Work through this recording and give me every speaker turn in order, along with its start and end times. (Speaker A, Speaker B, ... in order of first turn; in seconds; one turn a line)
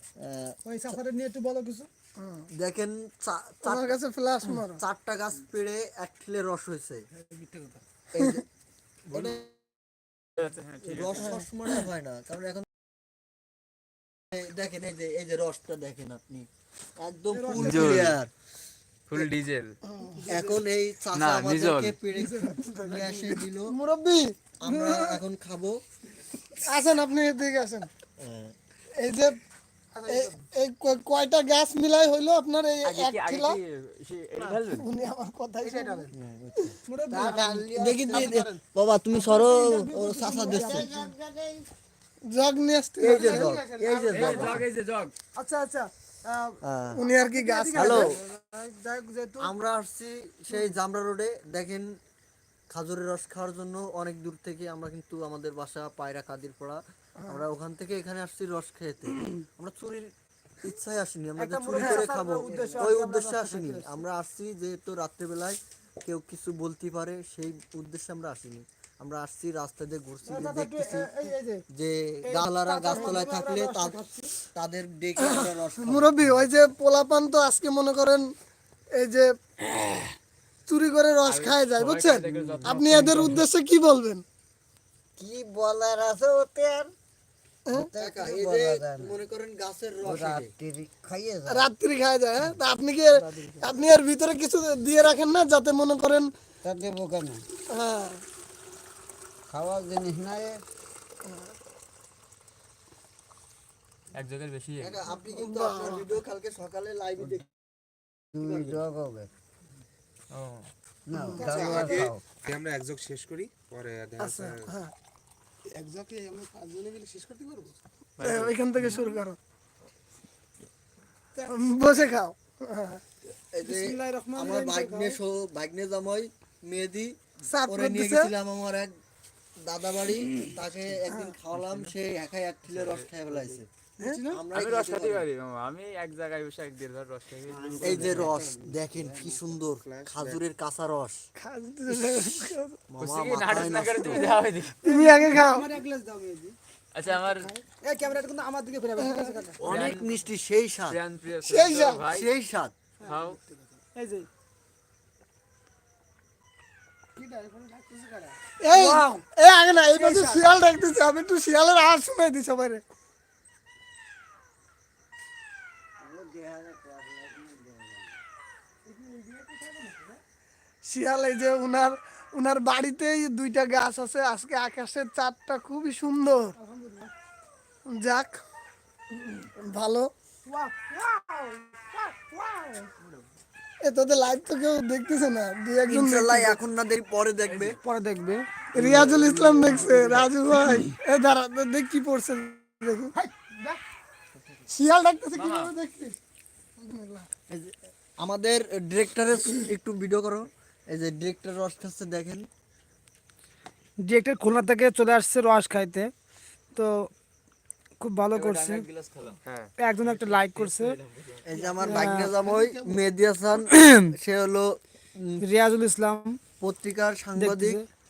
Speaker A: 0.2-0.6
Speaker B: 0.6-1.9
Speaker C: 2.2-2.5
Speaker A: 2.5-4.0
Speaker C: 3.6-4.8
Speaker A: 4.5-7.0
Speaker B: 7.3-7.8
Speaker A: 8.1-8.4
Speaker A: 9.1-9.5
Speaker D: 10.4-11.4
Speaker A: 10.8-12.7
Speaker A: 14.3-16.5
Speaker A: 17.0-18.3
Speaker B: 17.3-18.1
Speaker D: 17.5-18.2
Speaker D: 19.1-19.8
Speaker C: 19.9-20.2
Speaker B: 20.1-20.6
Speaker A: 20.3-23.7
Speaker D: 21.1-22.0
Speaker B: 22.1-23.4
Speaker C: 23.7-24.3
Speaker A: 24.6-25.8
Speaker C: 26.6-27.9
Speaker A: 28.2-28.5
Speaker C: 29.0-29.4
Speaker B: 29.9-30.4
Speaker C: 30.1-33.6
Speaker D: 32.8-34.9
Speaker C: 34.7-36.1
Speaker B: 35.6-36.1
Speaker A: 36.1-36.7
Speaker B: 36.9-38.6
Speaker E: 37.1-38.3
Speaker A: 37.7-40.9
Speaker B: 39.1-41.1
Speaker E: 40.5-41.7
Speaker C: 42.3-43.5
Speaker A: 43.0-44.6
Speaker B: 43.0-44.6
Speaker D: 44.1-45.1
Speaker B: 45.3-49.5
Speaker A: 46.6-47.0
Speaker C: 47.0-48.1
Speaker A: 47.7-48.2
Speaker A: 49.4-52.0
Speaker A: 52.7-60.1
Speaker A: 60.6-71.1
Speaker B: 61.4-64.0
Speaker C: 61.7-62.1
Speaker B: 70.2-71.6
Speaker A: 71.7-74.0
Speaker B: 72.2-74.3
Speaker A: 74.5-76.5
Speaker C: 75.2-78.2
Speaker C: 79.0-79.3
Speaker C: 80.7-84.2
Speaker D: 81.2-83.4
Speaker E: 82.3-82.6
Speaker E: 85.2-86.9
Speaker E: 87.7-89.2
Speaker A: 88.0-90.5
Speaker E: 90.0-91.7
Speaker C: 91.5-96.3
Speaker E: 93.2-93.8
Speaker E: 96.6-97.4
Speaker C: 97.7-98.2
Speaker E: 99.5-100.5
Speaker D: 104.1-105.0
Speaker A: 104.8-107.5
Speaker C: 105.4-106.0
Speaker E: 108.3-109.3
Speaker A: 108.4-108.8
Speaker D: 110.3-110.7
Speaker E: 111.1-112.2
Speaker C: 111.2-111.8
Speaker F: 111.5-114.7
Speaker C: 114.2-114.9
Speaker B: 115.7-117.8
Speaker D: 118.2-118.9
Speaker C: 118.2-119.4
Speaker C: 121.5-123.0
Speaker A: 123.5-127.2
Speaker B: 123.6-125.2
Speaker C: 127.5-128.3
Speaker A: 127.7-128.9
Speaker A: 129.6-133.7
Speaker D: 132.7-133.1
Speaker B: 134.0-134.4
Speaker A: 134.3-135.2
Speaker D: 134.5-138.3
Speaker E: 137.5-139.4
Speaker A: 137.8-141.2
Speaker F: 139.8-140.4
Speaker C: 141.4-142.8
Speaker A: 142.9-144.3
Speaker D: 143.0-144.7
Speaker B: 144.8-149.6
Speaker C: 144.8-145.7
Speaker D: 146.9-147.5
Speaker C: 149.0-149.3
Speaker A: 149.6-151.0
Speaker D: 149.7-150.2
Speaker D: 150.9-152.3
Speaker C: 151.4-152.0
Speaker A: 152.1-152.7
Speaker B: 153.0-154.3
Speaker D: 153.1-153.4
Speaker B: 157.2-159.2
Speaker C: 158.6-162.8
Speaker B: 159.9-160.4
Speaker E: 166.0-168.2
Speaker B: 168.9-170.2
Speaker C: 170.9-176.5
Speaker B: 176.6-177.1
Speaker C: 177.9-178.4
Speaker C: 179.4-180.1
Speaker B: 180.4-182.9
Speaker C: 183.8-186.6
Speaker A: 185.9-187.8
Speaker D: 187.4-187.8
Speaker B: 187.8-188.5
Speaker C: 188.7-193.1
Speaker A: 188.8-189.9
Speaker B: 189.4-190.8
Speaker B: 193.1-193.8
Speaker A: 194.3-194.7
Speaker C: 194.7-196.2
Speaker D: 195.3-195.7
Speaker C: 196.8-197.2
Speaker A: 197.5-202.5
Speaker B: 204.1-206.1
Speaker B: 206.8-207.1
Speaker B: 208.0-208.8
Speaker D: 208.3-209.4
Speaker B: 209.8-211.0
Speaker D: 210.0-211.8
Speaker A: 211.4-215.4
Speaker B: 211.8-212.3
Speaker C: 211.8-212.9
Speaker B: 215.4-216.4
Speaker A: 216.6-217.8
Speaker B: 217.3-217.8